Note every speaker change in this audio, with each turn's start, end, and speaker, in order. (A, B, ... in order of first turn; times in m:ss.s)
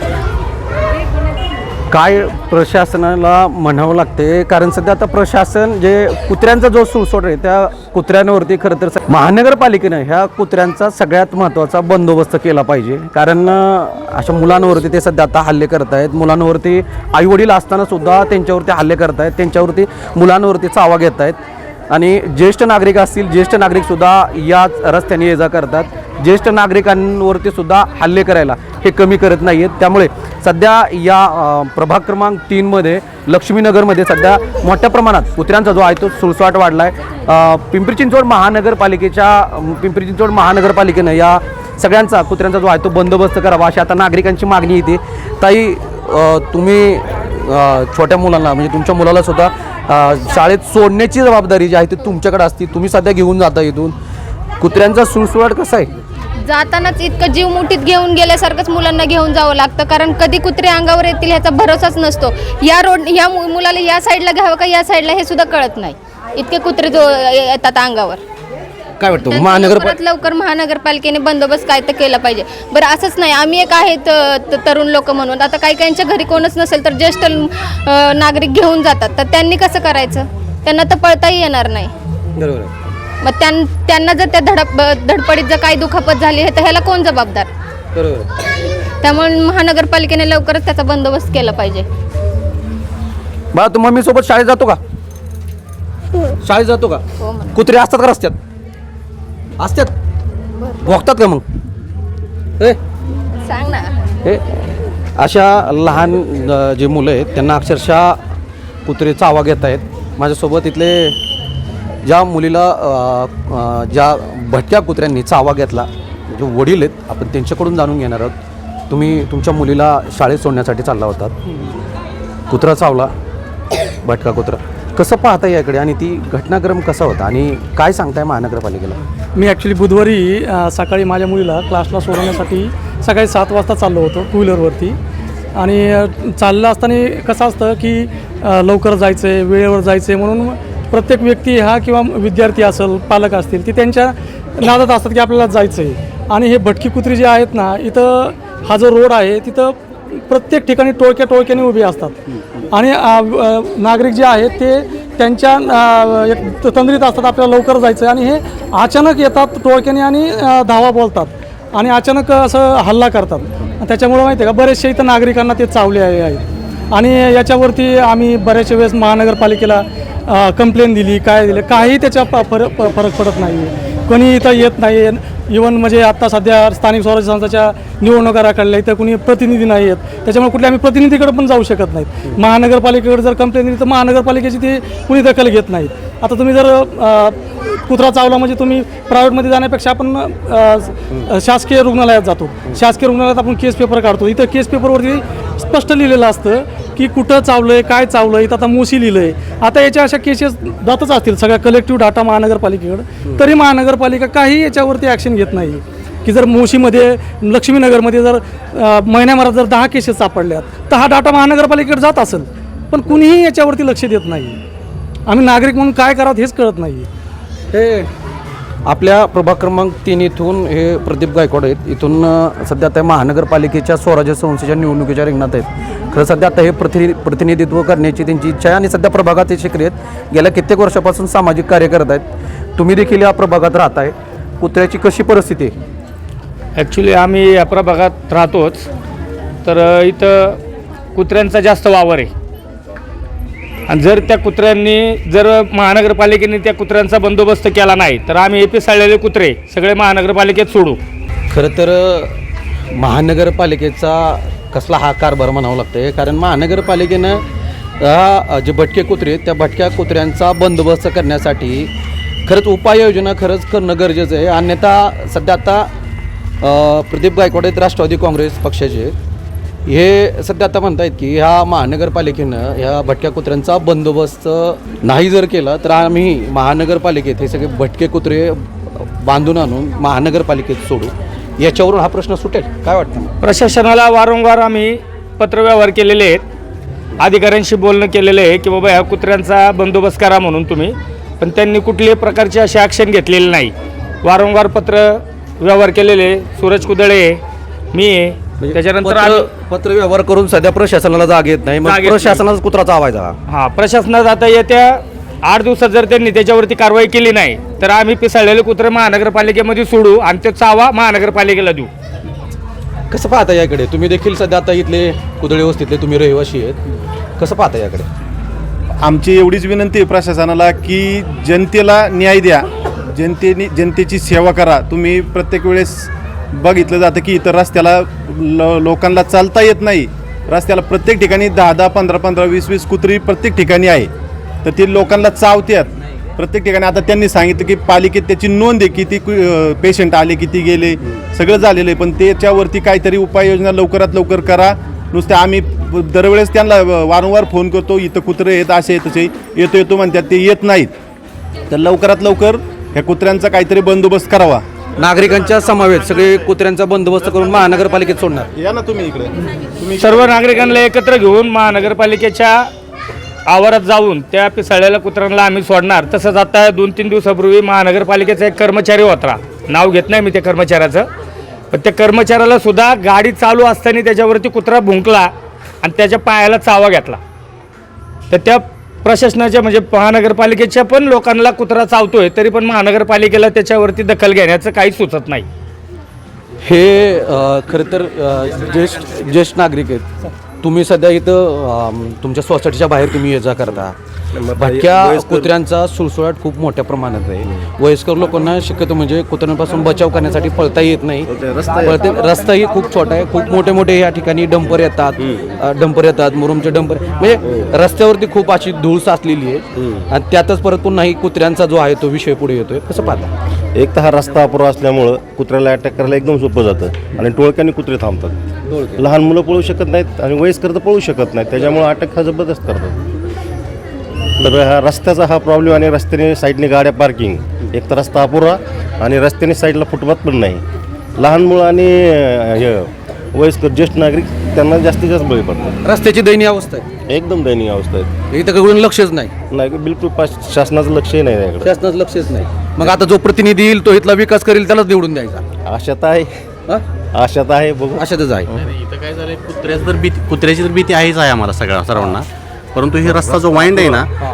0:01.9-0:21.4 A
0:21.9-0:53.9 A
0:54.6-0:55.9 A
0:56.4-1:08.2 B
1:09.0-1:10.0 A
1:09.2-1:21.9 B
1:22.4-1:22.7 A
1:23.2-1:27.5 B
1:28.0-1:28.3 A
1:29.0-1:31.9 B
1:33.5-1:34.8 A
1:36.4-1:37.0 A
1:37.2-1:37.6 B
1:37.5-1:38.4 A
1:39.6-1:39.9 A
1:40.6-1:41.0 B
1:40.8-1:41.4 A
1:43.5-1:43.9 B
1:44.2-1:48.2 A
1:48.9-1:51.2 A
1:52.0-1:58.4 A
1:58.9-2:01.4 A
2:02.5-2:03.1 A
2:04.0-2:09.0 A
2:09.4-2:15.0 C
2:15.6-2:32.2 C
2:32.7-3:34.6 C
3:35.3-3:37.1 C
3:37.7-3:38.1 A
3:38.9-3:52.2 A
3:52.8-3:55.7 A
3:56.8-3:58.9 D
3:59.6-4:00.6 D
4:01.2-4:02.3 D
4:03.9-4:11.0 D
4:11.5-4:12.4 A
4:12.9-4:17.4 A
4:18.0-4:21.9 A
4:22.5-4:25.9 A
4:26.6-4:29.1 A
4:29.9-4:43.3 A
4:43.4-4:46.4 D
4:47.2-4:53.7 D
4:54.2-4:57.4 D
4:57.9-4:59.5 D
4:58.6-5:03.4 A
5:01.8-5:02.4 D
5:03.5-5:11.9 D
5:13.1-5:16.8 A
5:17.4-5:18.1 A
5:19.0-5:34.1 E
5:34.6-5:50.9 E
5:51.7-5:54.6 E
5:55.0-5:58.5 A
5:58.5-6:00.2 E
6:00.0-6:02.7 D
6:03.5-6:11.1 D
6:11.7-6:15.3 D
6:15.8-6:17.2 D
6:18.3-6:25.5 D
6:26.6-6:34.0 A
6:34.4-6:35.5 F
6:34.6-6:53.3 A
6:41.3-6:42.0 F
6:53.8-6:58.4 F
6:58.7-6:59.0 A
6:59.0-7:03.0 F
7:04.4-7:10.6 F
7:11.2-7:15.8 F
7:15.8-7:16.8 A
7:17.1-7:18.1 F
7:18.3-7:19.3 A
7:19.5-7:21.7 F
7:21.6-7:25.4 A
7:25.7-7:26.4 F
7:27.1-7:28.0 F
7:28.0-7:28.5 A
7:28.6-7:34.1 G